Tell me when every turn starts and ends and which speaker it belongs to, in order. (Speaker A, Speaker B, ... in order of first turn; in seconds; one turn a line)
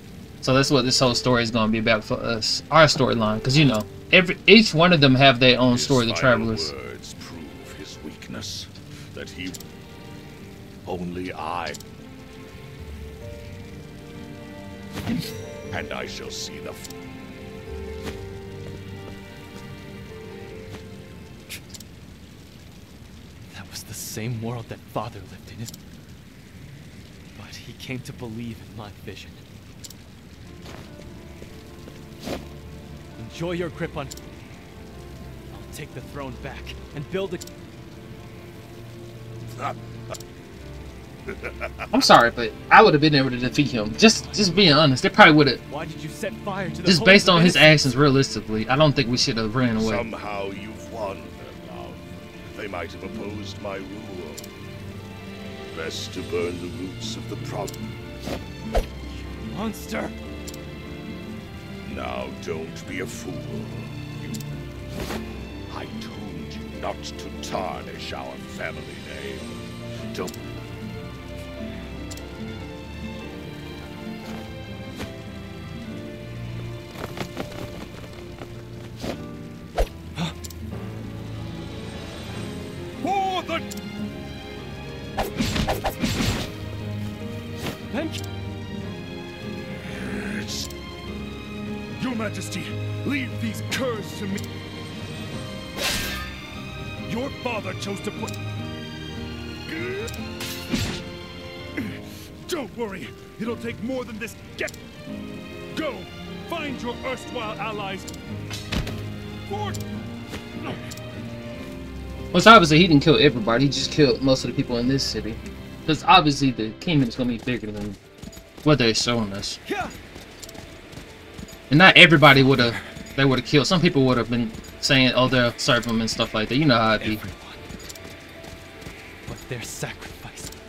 Speaker A: 0.4-6.7
Speaker B: 5.7-9.6
Speaker B: 10.8-11.8
Speaker B: 15.7-16.8
Speaker C: 23.5-25.7
Speaker C: 27.4-29.4
Speaker C: 33.2-34.1
Speaker C: 35.5-37.4
Speaker B: 41.3-41.7
Speaker A: 41.9-45.6
Speaker C: 45.7-47.7
Speaker A: 46.9-50.0
Speaker B: 49.8-54.5
Speaker B: 55.7-57.8
Speaker C: 59.1-60.1
Speaker B: 61.8-64.4
Speaker B: 65.7-69.5
Speaker D: 83.0-83.7
Speaker C: 87.9-88.2
Speaker D: 92.0-94.4
Speaker D: 97.0-98.3
Speaker D: 99.7-100.0
Speaker D: 101.8-104.8
Speaker D: 105.7-108.1
Speaker D: 109.5-109.8
Speaker A: 112.3-118.0
Speaker A: 118.6-119.6
Speaker C: 119.7-119.9
Speaker A: 121.7-127.2
Speaker C: 122.3-122.9
Speaker C: 127.0-127.7
Speaker C: 129.2-130.5